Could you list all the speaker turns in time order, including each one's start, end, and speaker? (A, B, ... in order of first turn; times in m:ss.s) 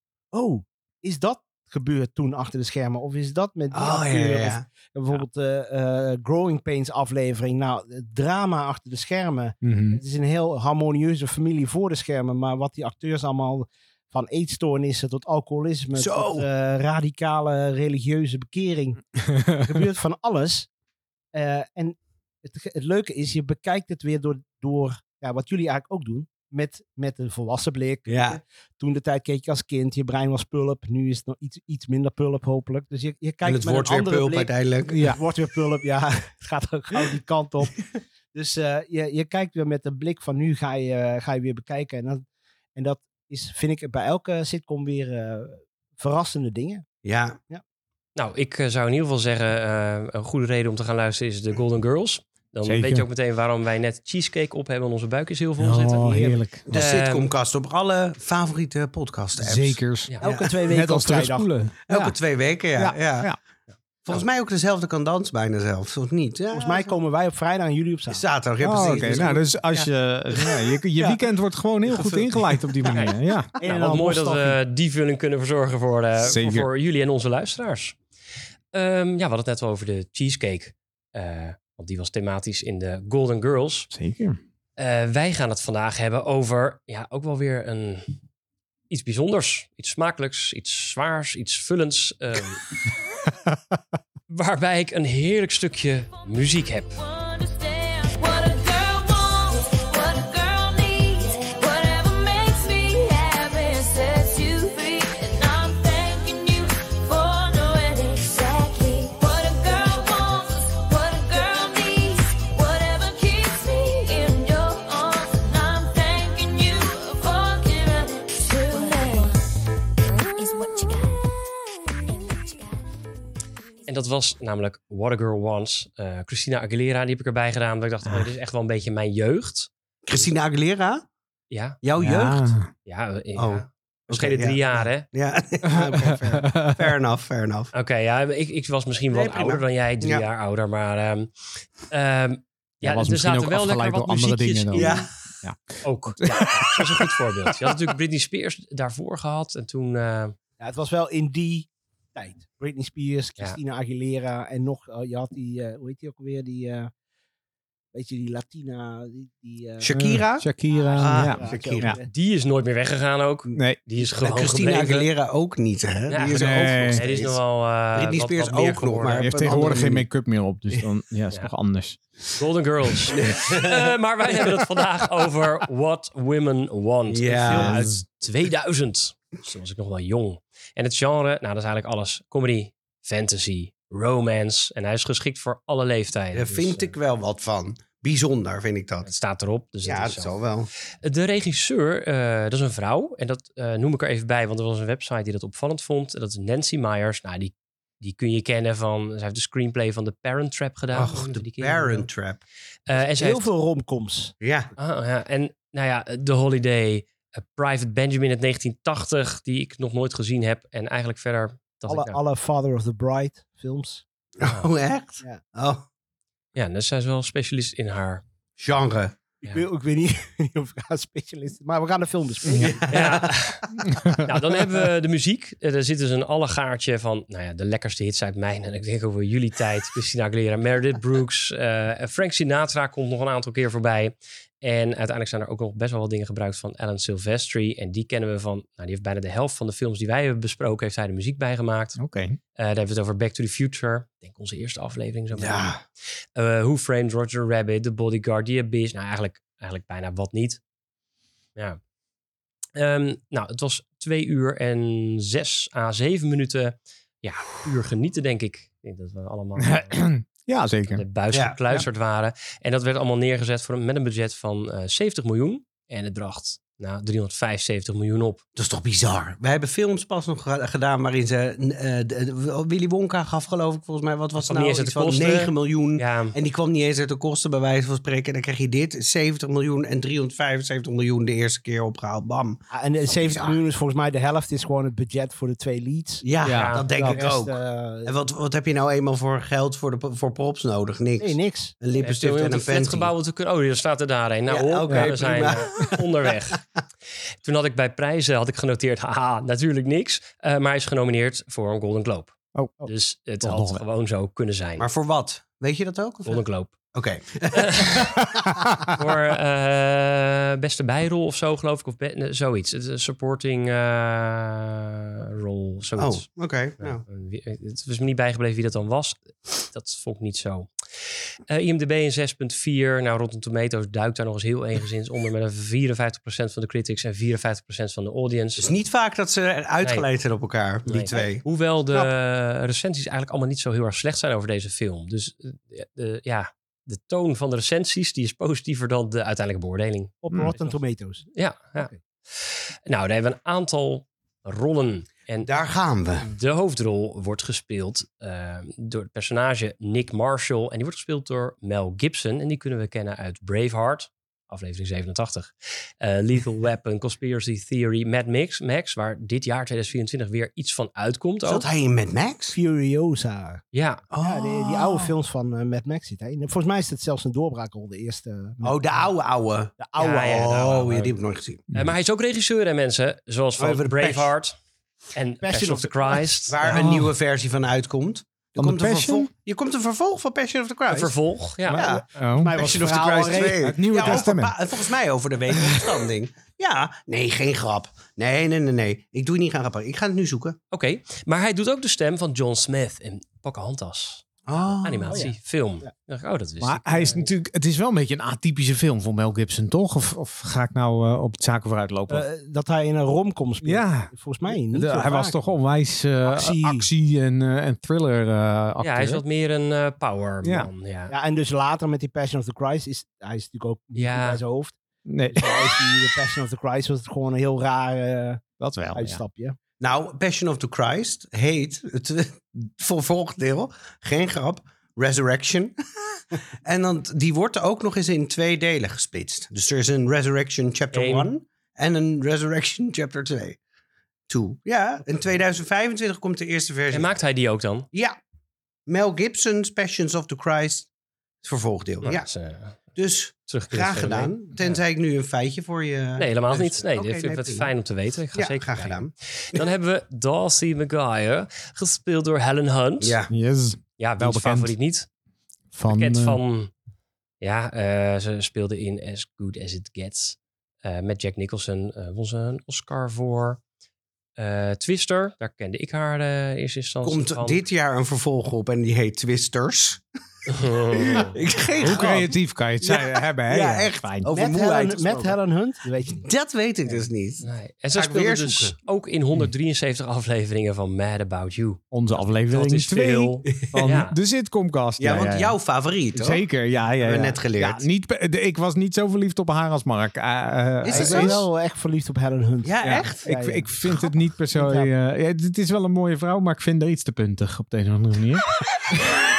0:00.3-0:20.7 A
0:03.7-0:04.6 B
0:09.6-0:10.0 C
0:15.9-0:16.5 B
0:21.3-0:46.8 A
0:28.1-0:28.4 B
0:33.4-0:35.1 B
0:47.0-0:47.4 B
0:48.2-0:57.3 D
0:52.6-0:53.0 C
0:55.6-0:56.8 C
0:56.7-1:00.5 B
0:59.4-1:00.1 C
1:00.2-1:01.5 A
1:00.7-1:02.2 C
1:01.9-1:03.3 B
1:02.8-1:03.4 C
1:04.0-1:07.0 B
1:06.5-1:09.4 A
1:08.1-1:11.2 B
1:08.6-1:13.5 C
1:11.8-1:12.9 B
1:12.9-1:18.0 D
1:13.6-1:14.6 A
1:16.2-1:16.7 C
1:18.7-1:23.9 D
1:23.9-1:24.4 C
1:24.8-1:28.2 D
1:28.9-1:32.6 D
1:34.3-1:37.0 D
1:37.0-1:59.4 E
2:00.0-2:01.4 E
2:02.1-2:02.8 E
2:03.8-2:09.7 D
2:10.0-2:11.0 B
2:11.5-2:11.8 D
2:11.8-2:12.5 B
2:12.0-2:12.7 C
2:12.8-2:15.0 D
2:13.4-2:17.7 B
2:15.8-2:16.9 C
2:17.7-2:21.3 D
2:19.1-2:20.2 B
2:21.8-2:25.1 D
2:22.8-2:27.7 C
2:24.7-2:25.1 B
2:25.8-2:30.3 D
2:30.6-2:36.9 A
2:37.9-2:39.9 A
2:39.8-2:41.9 B
2:39.9-2:42.0 C
2:40.7-2:42.1 A
2:42.1-2:45.1 D
2:44.1-2:47.4 B
2:46.1-2:49.6 D
2:46.3-2:47.0 C
2:47.9-2:50.0 B
2:49.1-2:52.0 C
2:52.4-3:06.9 D
2:53.2-2:53.9 B
2:57.1-2:57.8 B
2:57.5-2:58.0 C
3:06.3-3:09.1 B
3:09.0-3:10.3 D
3:09.8-3:10.7 B
3:11.0-3:22.1 D
3:20.9-3:22.4 B
3:22.9-3:23.5 D
3:23.2-3:24.3 A
3:24.4-3:24.7 B
3:24.8-3:32.2 D
3:31.9-3:34.0 A
3:34.4-3:35.8 B
3:34.4-3:34.7 D
3:36.5-3:38.2 D
3:38.6-3:39.2 B
3:39.4-3:42.9 A
3:42.5-3:43.4 B
3:42.9-4:02.0 D
3:43.9-3:44.2 C
4:02.0-4:02.4 C
4:02.6-4:05.7 D
4:05.3-4:05.8 B
4:06.3-4:10.6 D
4:12.7-4:20.0 D
4:19.6-4:21.0 C
4:20.9-4:28.4 D
4:21.3-4:21.6 B
4:28.6-4:42.6 B
4:34.4-4:36.4 D
4:42.7-4:46.2 A
4:43.1-4:43.6 B
4:46.2-4:53.1 B
4:46.4-4:47.2 C
4:46.5-4:46.9 D
4:47.0-4:48.1 A
4:51.2-4:51.7 A
4:52.0-4:56.6 D
4:54.5-4:56.0 B
4:54.9-4:55.1 C
4:57.4-5:04.9 D
5:02.5-5:02.9 C
5:03.4-5:03.8 C
5:04.8-5:08.3 B
5:06.2-5:06.8 D
5:07.5-5:08.1 D
5:09.0-5:16.2 D
5:16.0-5:17.0 B
5:16.8-5:20.7 D
5:21.5-5:28.7 D
5:28.6-5:31.4 B
5:30.8-5:45.5 D
5:40.2-5:41.2 A
5:45.4-5:46.3 B
5:46.2-6:01.6 D
6:01.4-6:02.6 B
6:02.5-6:03.6 A
6:03.7-6:04.0 D
6:04.1-6:05.1 B
6:04.2-6:08.8 A
6:08.6-6:11.6 B
6:09.8-6:10.6 A
6:10.0-6:11.1 D
6:11.7-6:14.6 D
6:13.6-6:14.3 B
6:15.1-6:17.0 D
6:15.4-6:16.2 A
6:16.5-6:21.1 B
6:16.7-6:17.1 C
6:18.6-6:19.3 C
6:20.9-6:21.8 D
6:21.7-6:22.7 C
6:21.7-6:22.0 B
6:22.4-6:23.8 A
6:22.6-6:30.6 B
6:23.6-6:24.6 C
6:25.6-6:25.8 C
6:30.7-6:37.3 D
6:34.5-6:35.2 B
6:35.1-6:35.9 A
6:36.6-6:42.2 C
6:42.1-6:45.4 A
6:43.6-6:49.2 C
6:46.2-6:46.9 A
6:48.8-6:51.1 D
6:50.4-6:50.7 C
6:51.1-6:54.8 A
6:54.0-6:54.4 D
6:55.1-6:55.8 C
6:55.3-6:58.4 A
6:58.6-6:59.2 C
6:58.9-6:59.6 A
6:59.8-7:13.6 B
7:10.9-7:11.3 D
7:14.3-7:17.1 B
7:16.9-7:17.9 D
7:18.9-7:20.9 B
7:21.4-7:22.3 B
7:22.0-7:22.8 D
7:22.9-7:27.7 B
7:23.5-7:24.8 D
7:26.2-7:33.2 D
7:28.3-7:29.6 B
7:33.0-7:33.3 B
7:33.3-7:34.7 C
7:34.0-7:35.1 D
7:35.7-7:36.4 C
7:35.9-7:36.7 D
7:37.4-7:43.6 D
7:44.4-7:47.6 D
7:47.0-7:50.0 B
7:50.5-7:51.4 D
7:50.9-7:55.4 B
7:51.8-7:54.3 C
7:54.3-7:56.3 A
7:56.2-7:58.8 B
7:57.4-8:04.2 D
8:01.9-8:05.6 C
8:05.0-8:06.4 B
8:06.1-8:11.4 C
8:07.0-8:07.8 B
8:10.8-8:11.4 B
8:10.8-8:13.7 A
8:12.6-8:13.3 B
8:12.8-8:19.2 C
8:14.5-8:14.9 A